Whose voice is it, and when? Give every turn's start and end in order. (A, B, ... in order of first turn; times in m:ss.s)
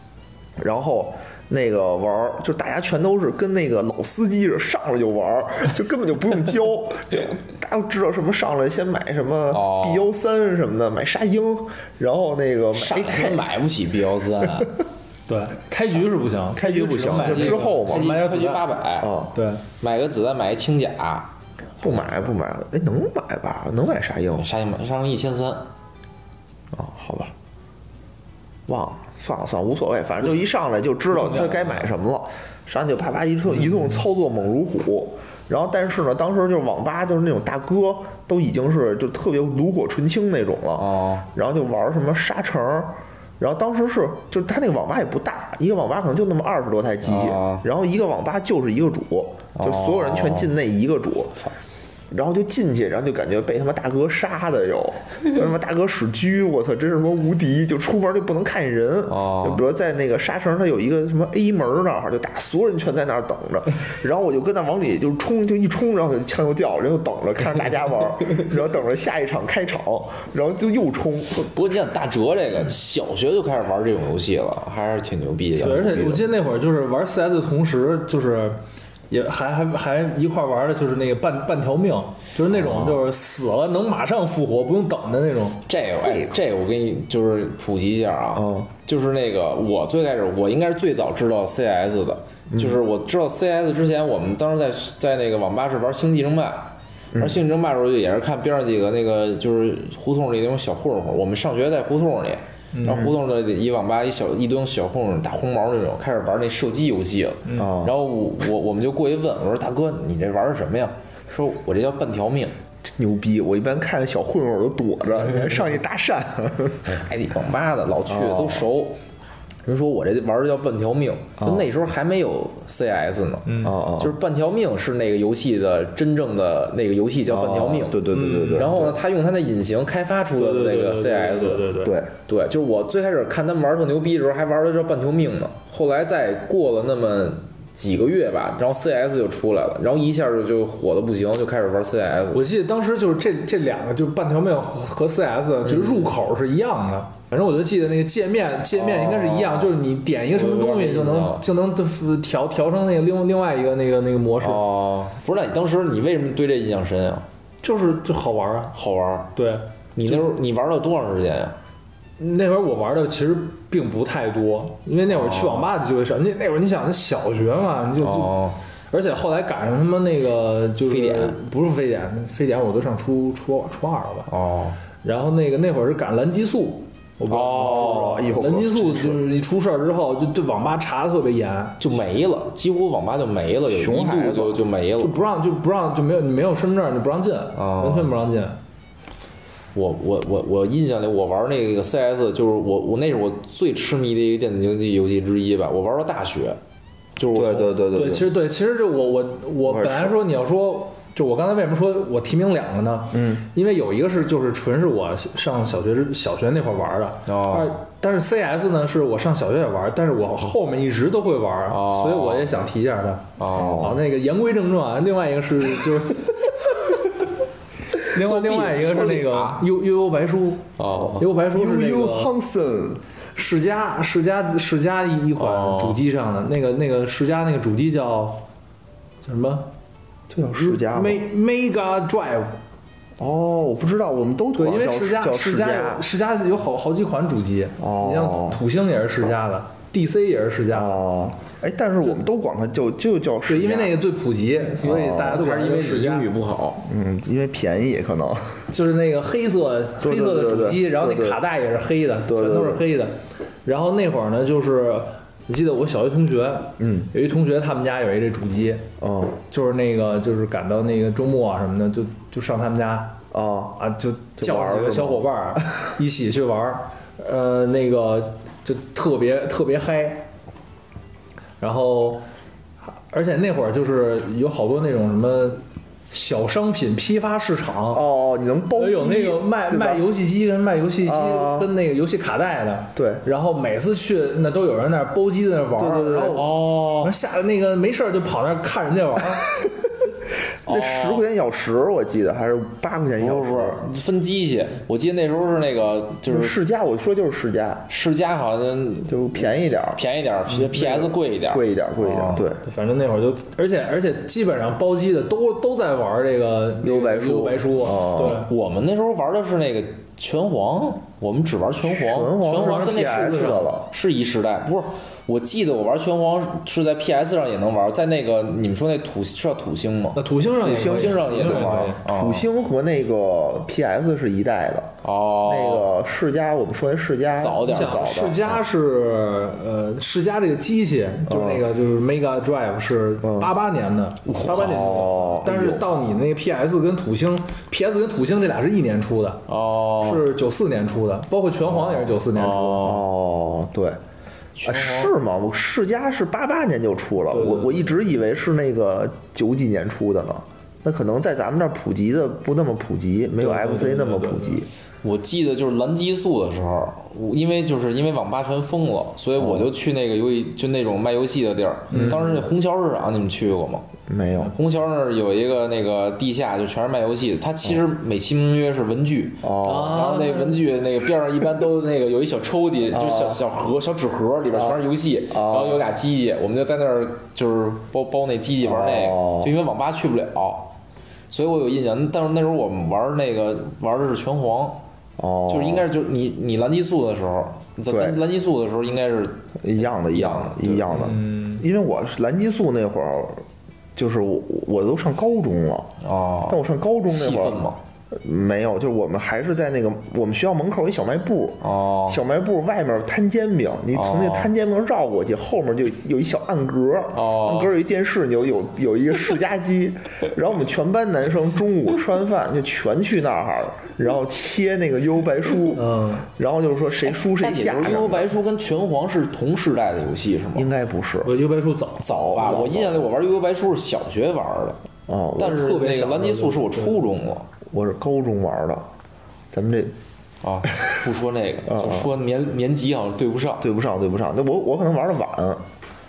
0:00.6-0:13.4 A
0:09.5-0:10.1 B
0:12.7-0:14.7 B
0:15.3-0:18.7 C
0:16.5-0:18.1 A
0:17.2-0:19.1 B
0:19.0-0:19.4 A
0:19.4-0:19.6 C
0:19.8-0:22.1 B
0:21.8-0:24.5 A
0:24.4-0:25.7 B
0:26.7-0:27.3 A
0:28.7-0:51.4 A
0:31.1-0:31.9 B
0:40.8-0:41.3 B
0:47.0-0:47.6 B
0:49.6-0:50.5 B
0:52.1-1:11.5 A
0:59.1-0:59.6 B
1:11.4-1:16.1 B
1:15.6-1:25.6 C
1:15.6-1:16.3 A
1:22.5-1:23.0 A
1:25.7-1:52.5 B
1:26.0-1:26.4 A
1:28.4-1:28.7 A
1:32.5-1:32.8 A
1:42.7-1:43.1 C
1:42.9-1:43.1 A
1:47.6-1:47.9 A
1:53.0-1:57.0 A
1:56.8-1:59.0 B
1:58.1-1:58.7 A
1:59.6-2:11.7 B
2:01.4-2:01.7 A
2:03.5-2:03.8 C
2:03.6-2:04.2 A
2:07.3-2:09.0 A
2:08.1-2:08.8 C
2:10.4-2:12.0 C
2:11.8-2:12.1 A
2:12.3-2:22.5 B
2:22.3-2:34.6 C
2:25.6-2:26.2 B
2:28.7-2:29.8 B
2:30.3-2:31.4 B
2:34.4-2:37.3 B
2:37.6-2:38.8 C
2:38.8-2:39.3 B
2:39.4-2:40.3 C
2:40.0-2:41.6 B
2:42.2-2:54.3 C
2:45.1-2:45.7 B
2:48.0-2:48.6 B
2:50.9-2:51.4 B
2:54.3-2:54.8 B
2:55.0-3:01.8 C
2:57.3-2:58.3 B
2:57.6-2:59.2 A
3:01.8-3:05.2 B
3:03.7-3:04.6 A
3:05.0-3:08.6 C
3:07.6-3:08.1 B
3:09.8-3:16.6 B
3:17.2-3:17.8 B
3:17.3-3:18.4 A
3:17.9-3:36.5 C
3:19.6-3:20.2 A
3:23.1-3:23.5 A
3:27.3-3:27.8 B
3:31.7-3:32.7 B
3:33.4-3:34.0 B
3:33.5-3:34.0 A
3:38.0-3:42.3 C
3:38.2-3:39.7 B
3:40.8-3:41.3 B
3:40.9-3:43.0 A
3:43.4-3:48.4 C
3:45.4-3:46.0 B
3:49.2-3:49.7 C
3:50.3-3:51.2 A
3:50.6-3:52.6 C
3:53.2-3:56.0 A
3:54.6-4:01.0 C
3:57.8-3:58.6 A
4:00.7-4:04.0 A
4:03.5-4:06.3 C
4:04.8-4:06.8 B
4:04.8-4:05.3 A
4:06.8-4:08.6 A
4:08.7-4:18.9 C
4:10.0-4:11.4 A
4:12.3-4:12.8 A
4:16.8-4:17.1 A
4:19.0-4:19.4 A
4:19.5-4:23.2 C
4:23.3-4:23.8 A
4:23.8-4:30.3 C
4:24.4-4:25.3 A
4:31.6-4:32.2 C
4:33.0-4:38.0 C
4:37.9-4:40.0 A
4:38.8-4:49.6 C
4:41.0-4:41.7 A
4:43.0-4:43.2 A
4:45.8-4:46.5 A
4:46.3-4:47.1 B
4:50.7-4:51.2 B
4:50.7-4:53.8 A
4:53.2-4:56.6 B
4:56.3-4:57.9 A
4:57.9-5:02.5 B
4:59.1-5:00.0 A
5:00.7-5:02.6 A
5:02.6-5:08.5 C
5:06.8-5:08.4 A
5:08.1-5:22.5 B
5:11.9-5:13.9 A
5:12.4-5:13.7 C
5:20.2-5:22.0 C
5:20.6-5:27.8 A
5:25.0-5:25.9 B
5:27.4-5:28.6 B
5:27.6-5:39.4 C
5:31.3-5:31.7 A
5:33.2-5:33.5 A
5:34.3-5:35.1 B
5:34.3-5:35.9 A
5:39.5-5:40.3 B
5:40.0-5:42.9 C
5:41.8-5:43.0 B
5:42.8-5:44.0 A
5:44.6-5:45.1 B
5:44.7-5:54.7 A
5:47.3-5:47.9 C
5:53.4-5:54.6 C
5:55.0-6:03.9 B
5:59.4-5:59.7 A
6:01.9-6:02.2 C
6:01.9-6:02.4 A
6:04.1-6:04.5 A
6:04.4-6:20.8 B
6:09.4-6:10.0 A
6:09.6-6:10.6 C
6:12.9-6:13.4 A
6:14.6-6:15.8 A
6:18.6-6:19.5 A
6:21.3-6:24.8 B
6:25.2-6:25.9 A
6:25.5-6:31.1 B
6:27.9-6:28.2 A
6:29.6-6:33.4 A
6:30.9-6:31.6 C
6:34.0-6:35.9 A
6:36.0-6:37.8 B
6:36.5-6:58.3 A
6:41.6-6:42.2 B
6:43.9-6:44.5 B
6:47.1-6:47.7 B
6:55.8-6:56.3 C
6:57.3-7:00.7 B
7:00.6-7:01.3 A
7:01.2-7:02.8 C
7:02.0-7:04.8 B
7:02.0-7:03.1 A
7:05.1-7:05.7 A
7:05.4-7:07.5 B
7:05.4-7:07.0 C
7:07.7-7:08.9 A
7:09.5-7:09.9 A
7:10.4-7:13.6 B
7:11.7-7:12.1 A
7:13.6-7:15.6 A